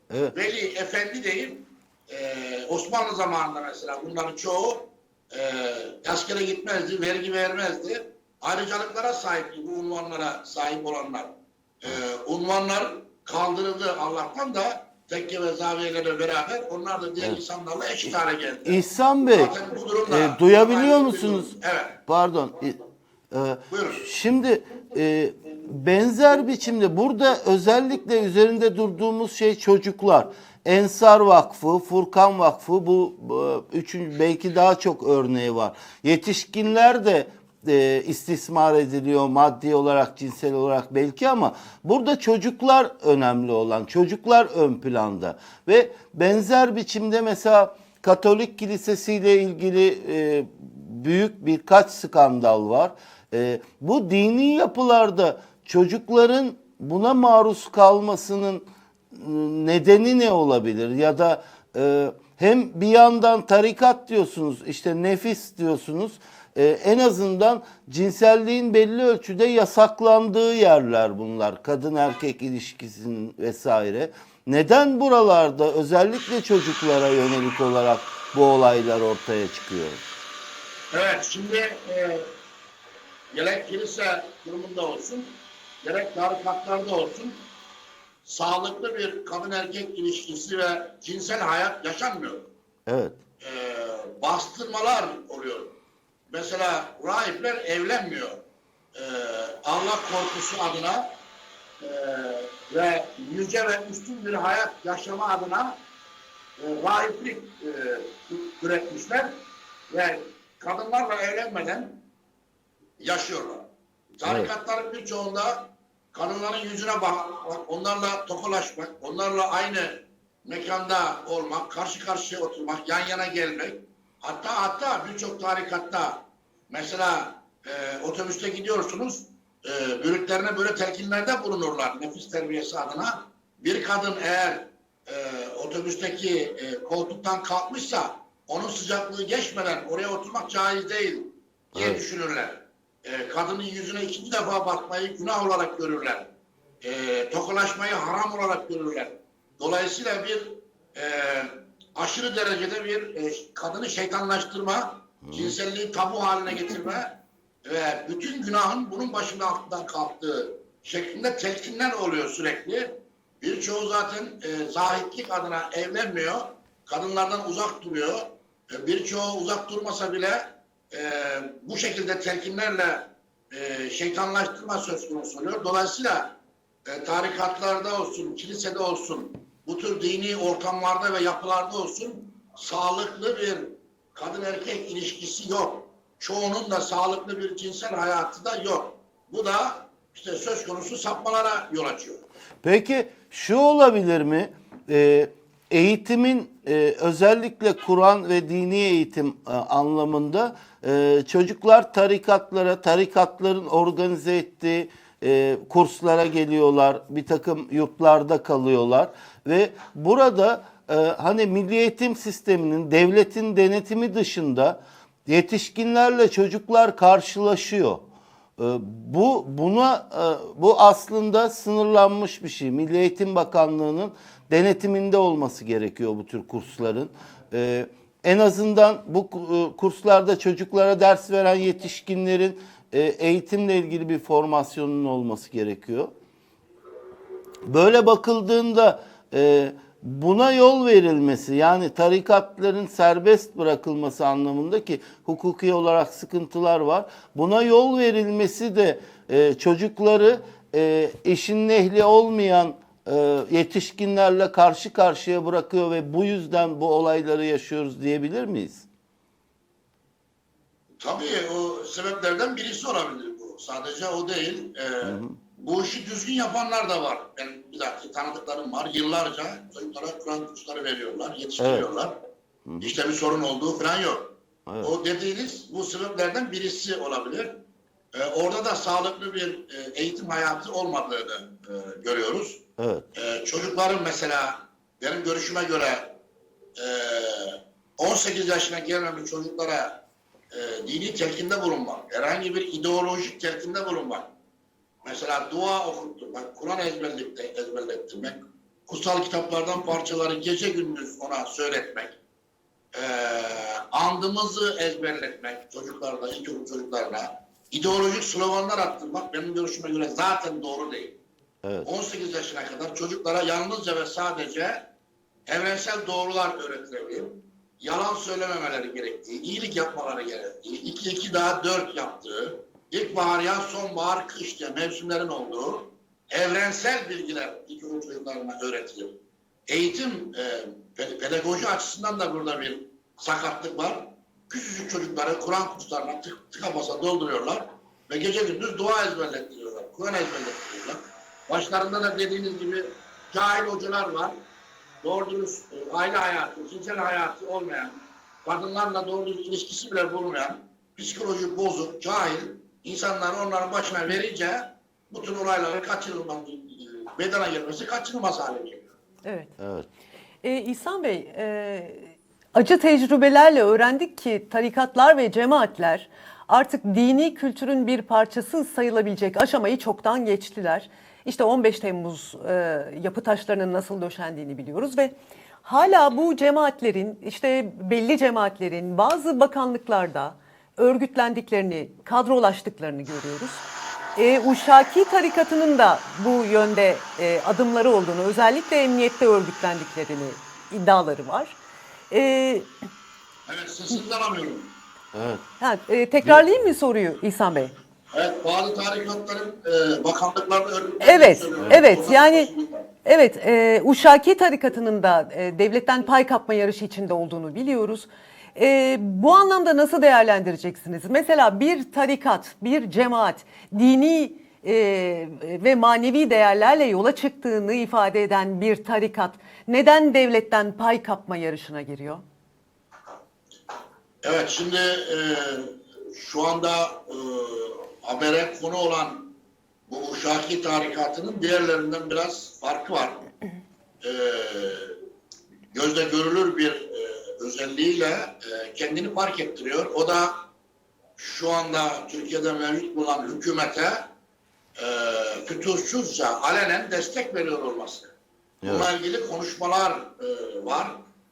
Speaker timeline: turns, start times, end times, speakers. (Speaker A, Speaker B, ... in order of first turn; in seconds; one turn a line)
Speaker A: 0.3-22.0
Speaker B: 18.6-19.5
Speaker B: 20.1-21.6
Speaker B: 22.1-80.0
Speaker A: 23.7-24.1
Speaker A: 80.9-82.3
Speaker A: 83.3-87.5
Speaker A: 88.2-92.5
Speaker B: 92.9-93.2
Speaker A: 93.4-95.8
Speaker A: 96.3-98.4
Speaker A: 98.9-101.1
Speaker A: 101.8-105.8
Speaker A: 106.6-109.4
Speaker A: 109.9-112.0
Speaker A: 113.0-113.7
Speaker A: 114.2-146.3
Speaker B: 114.2-114.5
Speaker B: 141.7-142.0
Speaker A: 146.8-176.3
Speaker B: 155.2-155.6
Speaker A: 176.9-192.2
Speaker B: 192.6-218.1
Speaker B: 218.6-236.1
Speaker B: 237.7-258.9
Speaker A: 261.0-272.1
Speaker B: 265.0-265.4
Speaker B: 271.6-271.9
Speaker B: 272.6-272.9
Speaker A: 272.8-277.6
Speaker B: 274.6-274.9
Speaker A: 278.1-282.6
Speaker B: 282.8-283.1
Speaker A: 283.1-286.2
Speaker A: 286.8-294.3
Speaker A: 295.0-302.2
Speaker A: 302.9-311.1
Speaker A: 311.8-314.9
Speaker A: 315.5-329.1
Speaker A: 329.7-344.4
Speaker A: 345.0-358.9
Speaker C: 359.2-359.5
Speaker B: 359.6-359.9
Speaker C: 360.4-383.6
Speaker C: 384.1-391.6
Speaker C: 392.1-392.7
Speaker A: 393.5-394.7
Speaker B: 395.1-395.4
Speaker C: 395.6-397.8
Speaker A: 398.1-402.9
Speaker C: 401.0-402.5
Speaker C: 403.0-422.2
Speaker A: 424.2-429.3
Speaker A: 429.9-433.2
Speaker A: 434.0-434.9
Speaker A: 435.7-440.4
Speaker A: 441.2-444.1
Speaker A: 444.8-448.1
Speaker B: 448.6-448.9
Speaker A: 448.6-451.0